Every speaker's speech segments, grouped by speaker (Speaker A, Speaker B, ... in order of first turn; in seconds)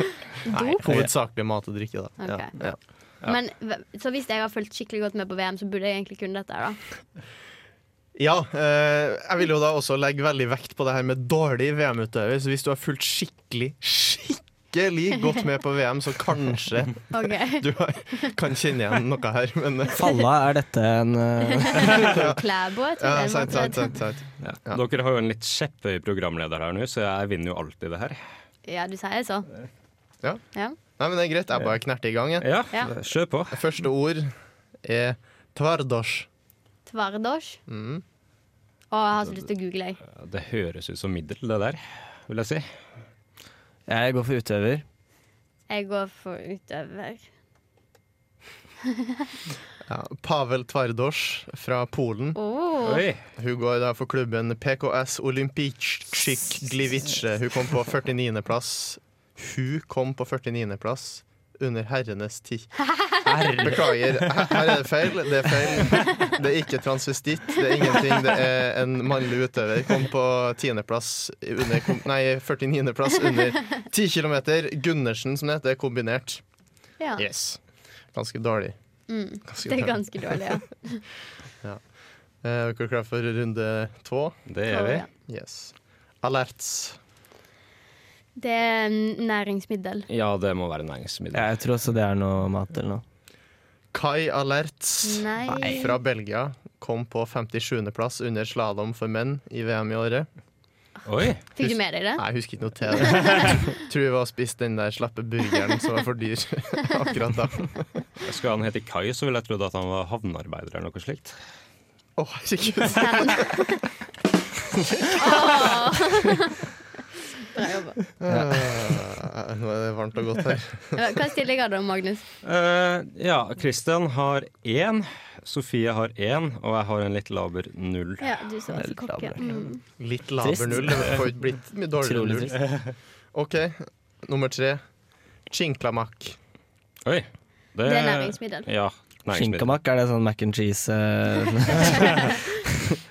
Speaker A: 0.4-0.8, 2.2-2.6, 3.2-6.8, 17.1-18.3, 21.6-23.9, 28.6-29.5, 36.9-37.6, 38.9-40.0, 45.7-47.3, 52.4-53.0, 79.1-81.0, 84.7-85.1, 88.4-90.1, 95.0-95.9, 101.5-102.2, 103.0-103.5, 112.9-113.8, 115.1-116.7, 117.5-118.0, 121.0-122.2, 128.2-129.8, 137.8-138.7, 142.1-142.3
Speaker B: 0.5-2.8, 8.2-20.1, 21.9-22.4, 23.0-24.8, 30.9-32.5, 33.5-34.3, 34.8-36.3, 37.7-38.0, 49.9-52.4, 53.4-62.7, 63.4-76.4, 77.2-77.6, 78.1-78.8, 79.5-80.5, 82.4-84.3, 85.3-87.0, 93.9-100.3, 101.6-108.0, 112.2-113.7, 114.8-115.8, 118.2-121.2, 129.4-132.7, 133.3-134.8, 135.5-136.4
Speaker C: 19.9-22.1, 43.9-44.8, 91.3-93.0, 118.3-119.0, 128.7-129.6, 130.4-131.2, 132.0-132.6, 139.3-142.4
Speaker D: 24.4-28.2, 32.4-33.6, 40.0-42.6, 52.8-53.2, 63.2-64.6, 84.5-85.0, 90.1-91.5, 101.0-101.4, 108.2-111.3, 122.4-128.3, 137.0-139.7